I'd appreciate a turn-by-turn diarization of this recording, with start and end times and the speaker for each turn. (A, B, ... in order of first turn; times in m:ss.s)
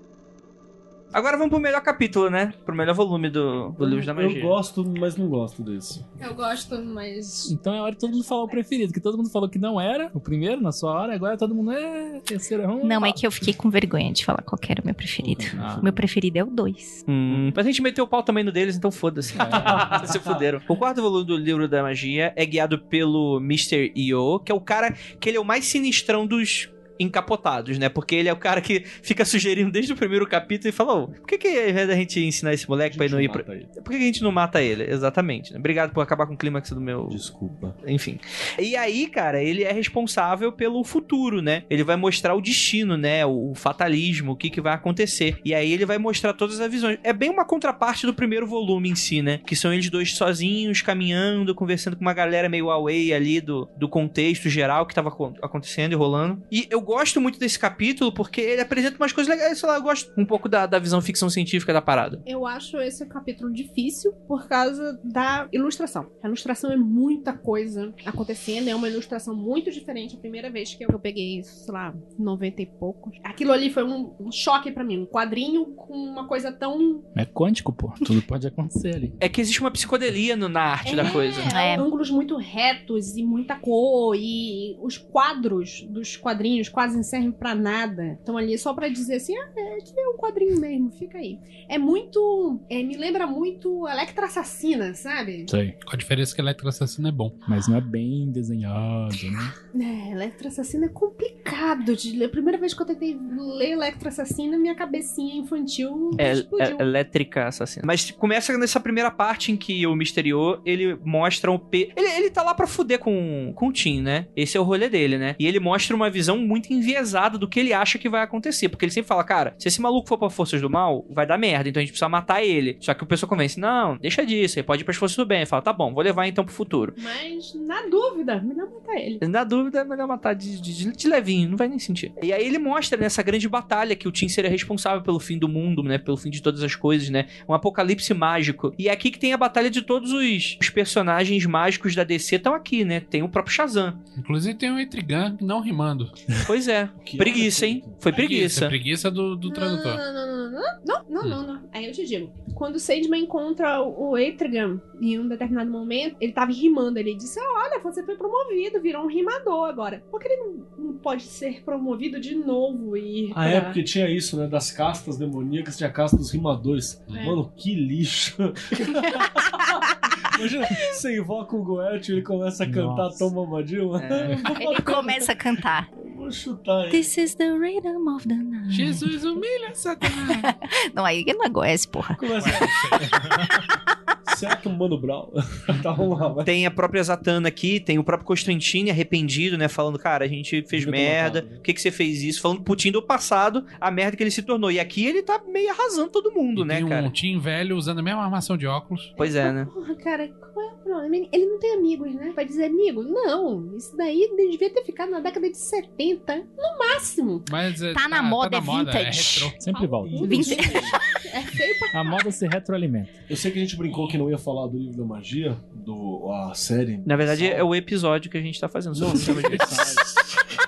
0:01.1-0:04.6 A
0:03.8-0:06.0 B
0:06.2-0:08.7 C
0:07.4-0:13.2 D
0:12.8-0:17.0 E
0:15.2-0:16.0 B
0:15.6-0:15.9 D
0:17.1-0:37.2 A
0:19.3-0:19.9 D
0:19.5-0:20.4 B
0:32.9-0:33.7 B
0:37.1-0:37.8 B
0:37.8-1:02.2 A
1:02.2-1:17.1 C
1:17.1-1:19.2 D
1:19.2-1:21.5 A
1:20.8-1:35.5 C
1:21.5-1:21.9 E
1:35.5-1:35.8 D
1:35.8-1:37.4 F
1:37.5-1:39.5 D
1:39.7-1:46.9 C
1:46.2-2:07.0 A
2:07.0-2:09.2 C
2:09.2-2:24.0 A
2:24.2-2:26.2 F
2:26.4-2:28.7 A
2:27.0-2:28.0 B
2:28.1-2:30.0 F
2:29.5-2:43.8 C
2:43.3-2:57.1 B
2:47.1-2:47.4 F
2:47.1-2:47.4 C
2:52.6-2:53.3 D
2:54.0-2:54.4 A
2:54.3-2:55.9 E
2:56.9-2:59.1 E
2:58.7-3:00.5 F
3:00.1-3:02.8 E
3:02.1-3:03.3 B
3:02.4-3:03.6 F
3:04.2-3:06.5 B
3:06.4-3:17.1 A
3:10.7-3:11.6 B
3:16.5-3:19.1 F
3:19.2-3:27.5 C
3:19.2-3:19.7 A
3:27.5-3:29.5 F
3:27.9-3:29.6 E
3:29.6-3:30.5 D
3:29.6-3:32.2 C
3:30.0-3:31.0 B
3:30.2-3:31.2 E
3:31.9-3:33.2 D
3:33.3-3:37.7 B
3:37.0-3:40.0 A
3:38.9-3:40.4 B